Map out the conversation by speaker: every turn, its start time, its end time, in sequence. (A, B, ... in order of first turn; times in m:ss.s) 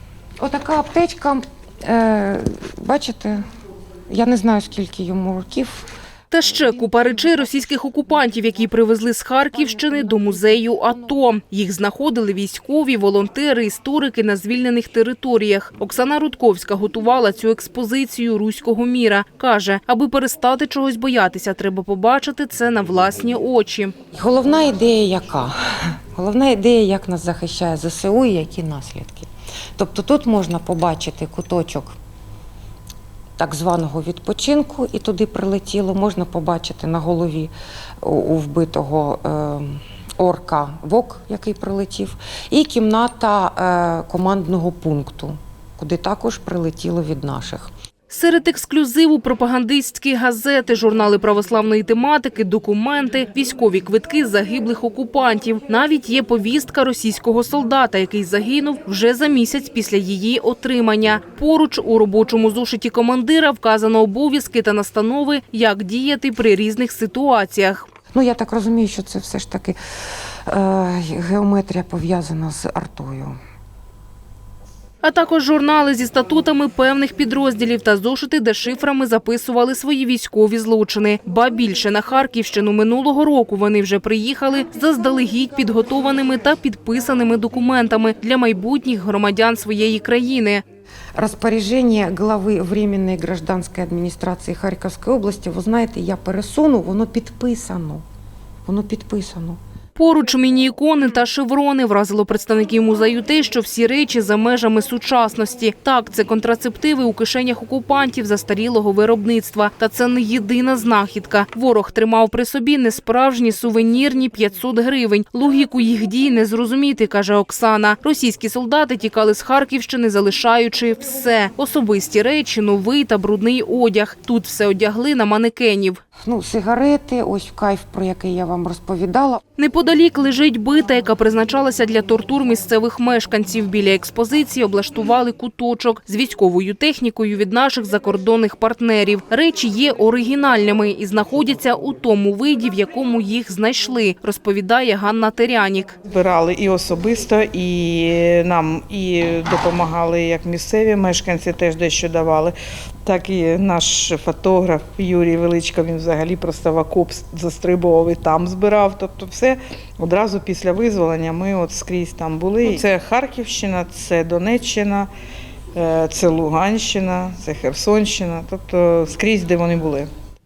0:00.4-0:03.4 A
0:04.1-0:05.9 A
0:06.3-0:23.9 B
0:09.6-0:11.1 A
0:24.1-0:32.0 A
0:33.4-0:47.7 A
0:48.1-1:07.8 B
1:08.1-1:09.8 A
1:10.5-1:13.4 A
1:15.0-1:30.6 B
1:31.2-1:38.0 A
1:38.6-1:39.6 A
1:39.9-2:06.0 B
2:06.2-2:09.4 A
2:09.6-2:26.0 B
2:26.1-2:45.1 C
2:45.7-2:50.1 C